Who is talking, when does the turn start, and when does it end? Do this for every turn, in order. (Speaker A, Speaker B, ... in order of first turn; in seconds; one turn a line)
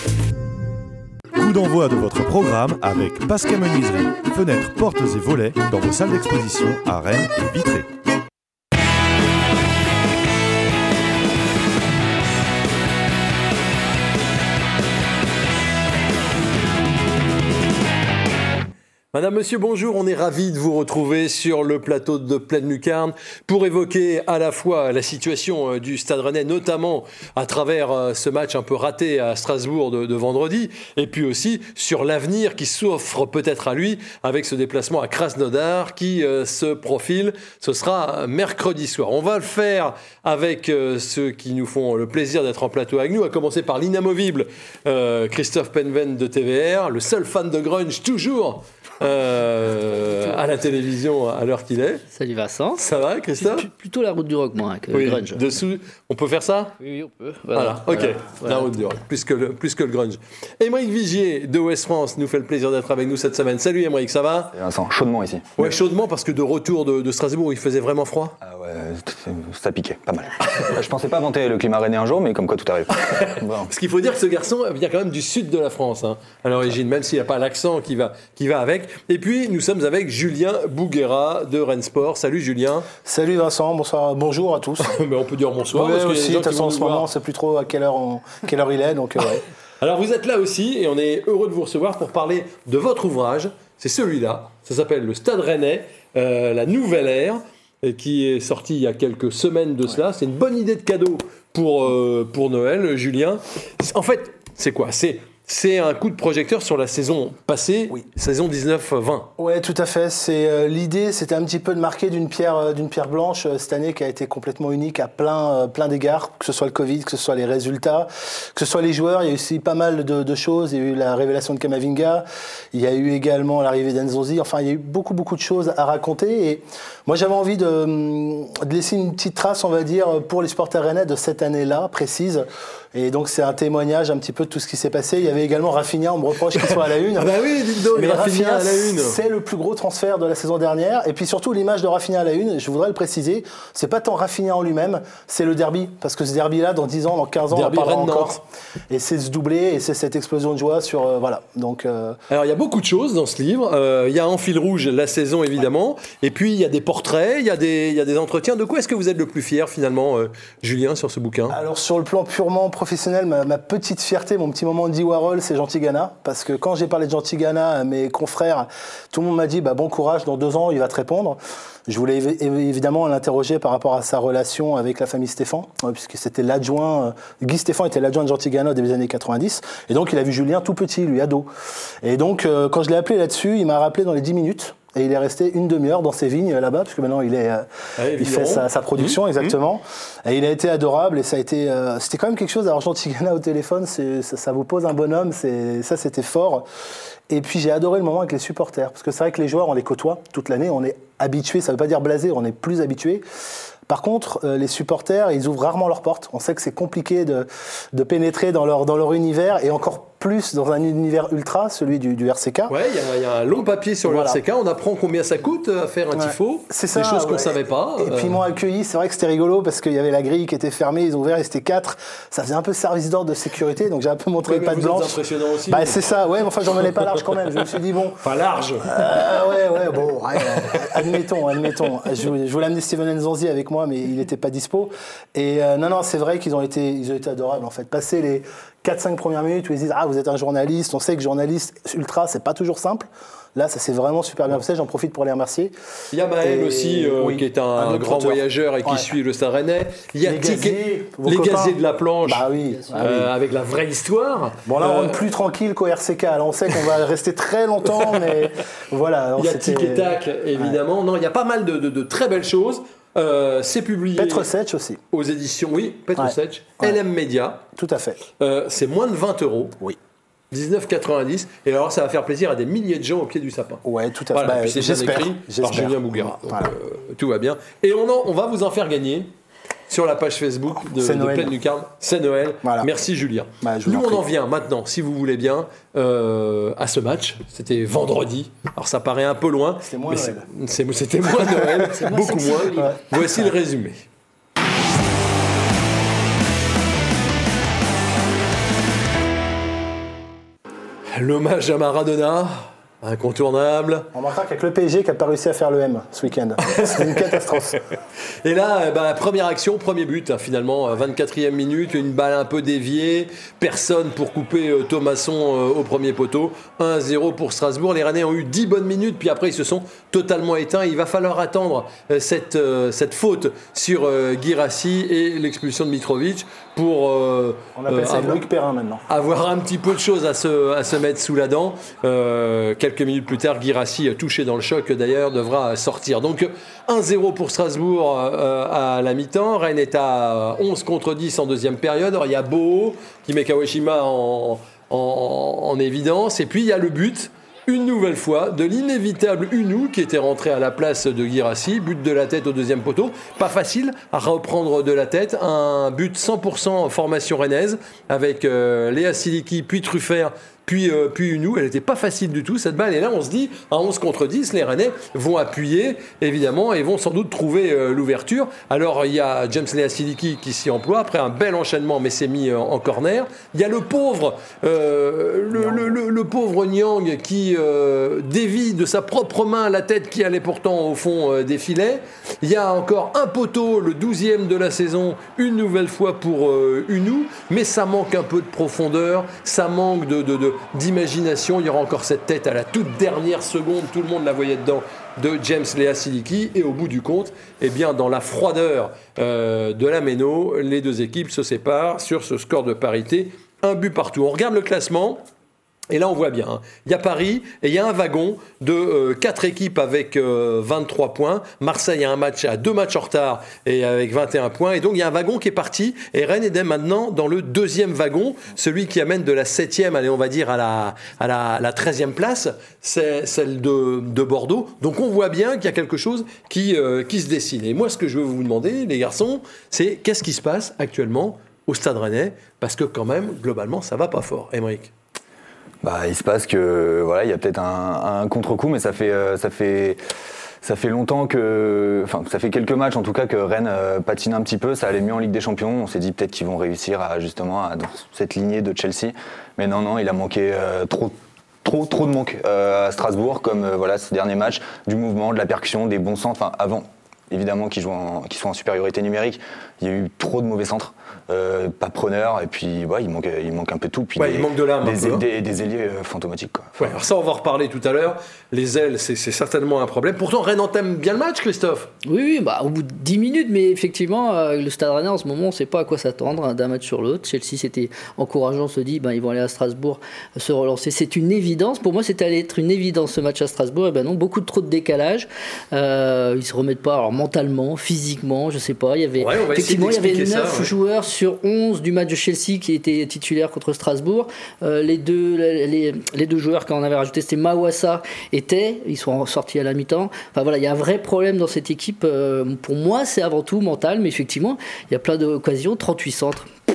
Speaker A: 1.4-7.9
Speaker B: 19.1-52.0
Speaker C: 52.1-52.8
Speaker B: 52.8-53.7
Speaker C: 53.4-55.4
Speaker B: 54.9-56.8
Speaker C: 56.8-58.7
Speaker B: 57.5-64.5
Speaker D: 64.5-65.7
Speaker B: 65.6-68.3
Speaker D: 68.4-73.7
Speaker B: 73.0-82.9
Speaker E: 83.0-84.9
Speaker B: 84.8-87.1
Speaker E: 85.7-89.4
Speaker B: 89.8-109.3
Speaker E: 109.4-137.4
Speaker B: 136.5-139.2
Speaker E: 137.9-152.2
Speaker B: 147.5-148.4
Speaker B: 152.3-161.6
Speaker E: 161.5-181.5
Speaker E: 182.0-187.7
Speaker B: 188.0-189.5
Speaker E: 188.2-196.7
Speaker E: 197.3-203.2
Speaker E: 203.9-212.7
Speaker B: 212.7-218.4
Speaker E: 214.0-214.4
Speaker E: 216.1-225.2
Speaker B: 224.4-226.1
Speaker E: 225.7-228.2
Speaker B: 228.2-229.0
Speaker E: 228.8-245.7
Speaker B: 246.1-252.4
Speaker E: 246.4-249.1
Speaker E: 250.2-253.3
Speaker C: 252.6-253.0
Speaker B: 253.0-255.2
Speaker E: 254.7-260.8
Speaker B: 257.9-258.5
Speaker B: 259.4-264.5
Speaker E: 264.1-265.0
Speaker B: 265.1-267.6
Speaker E: 266.1-267.0
Speaker E: 267.8-268.2
Speaker B: 268.4-269.8
Speaker B: 270.5-273.8
Speaker E: 273.8-276.7
Speaker B: 274.3-279.3
Speaker B: 279.9-294.0
Speaker E: 280.9-281.5
Speaker E: 282.6-282.9
Speaker E: 283.6-284.2
Speaker E: 289.8-290.4
Speaker E: 291.4-291.9
Speaker C: 291.9-293.1
Speaker E: 292.8-293.2
Speaker B: 301.1-304.1
Speaker E: 304.1-307.8
Speaker B: 306.6-307.8
Speaker B: 308.4-328.4
Speaker E: 327.8-329.0
Speaker B: 329.1-405.2
Speaker E: 375.6-375.9
Speaker B: 405.9-434.9
Speaker D: 435.8-440.0
Speaker D: 440.6-467.0
Speaker B: 464.2-465.2
Speaker B: 466.8-471.9
Speaker C: 472.1-506.5
Speaker B: 489.2-490.7